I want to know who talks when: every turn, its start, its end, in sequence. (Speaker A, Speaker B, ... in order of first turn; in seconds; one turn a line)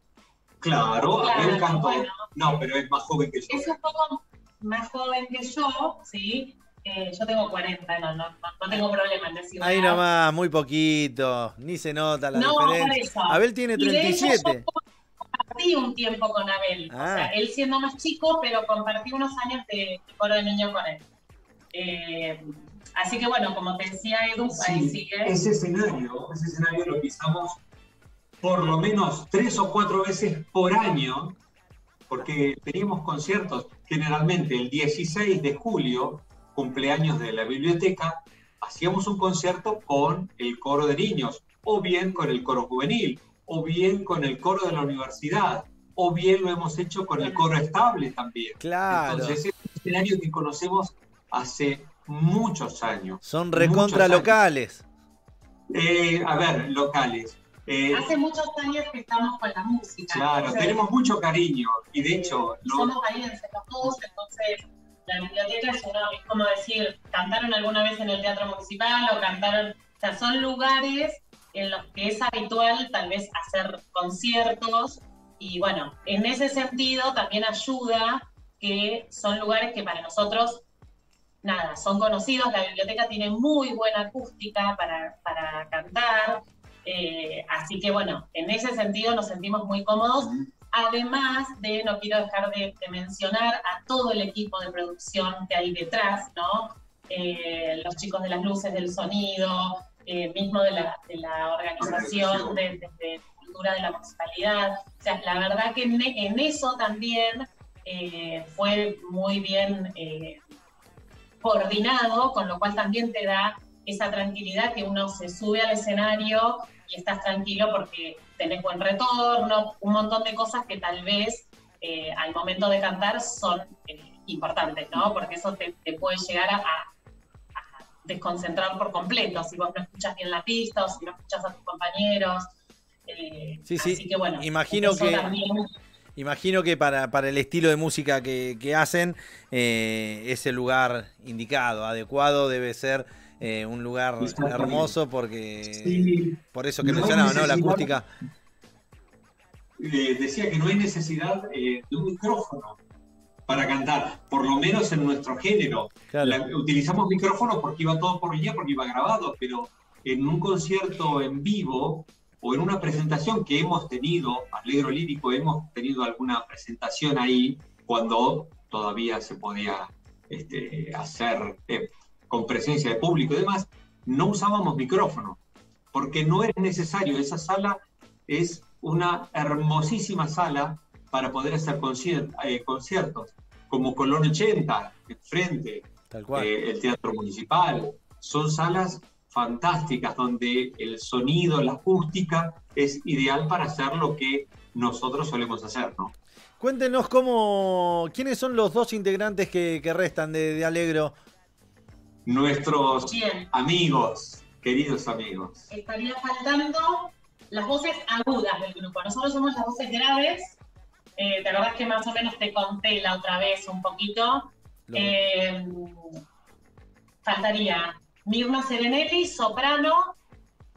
Speaker A: 0.6-3.8
Speaker B: 1.1-2.3
Speaker B: 3.5-10.0
Speaker C: 9.6-14.6
Speaker B: 12.3-21.1
Speaker C: 16.9-17.3
Speaker B: 21.7-25.4
Speaker A: 24.5-27.6
Speaker A: 28.4-31.4
Speaker A: 32.1-54.4
Speaker C: 48.6-49.4
Speaker C: 53.2-54.8
Speaker A: 55.7-58.1
Speaker B: 57.9-60.9
Speaker A: 60.1-62.9
Speaker B: 62.1-80.6
Speaker B: 81.4-110.4
Speaker A: 101.8-102.6
Speaker B: 111.4-126.9
Speaker B: 127.5-132.5
Speaker B: 133.1-135.7
Speaker C: 133.7-135.3
Speaker C: 136.2-148.1
Speaker A: 144.2-144.9
Speaker A: 145.7-147.9
Speaker A: 149.8-152.8
Speaker A: 153.5-175.4
Speaker C: 156.1-156.4
Speaker A: 175.9-196.1
Speaker C: 186.1-186.5
Speaker C: 196.6-201.2
Speaker A: 202.3-205.7
Speaker B: 203.1-203.5
Speaker B: 205.7-210.6
Speaker B: 211.2-216.2
Speaker C: 214.9-215.2
Speaker B: 217.2-220.2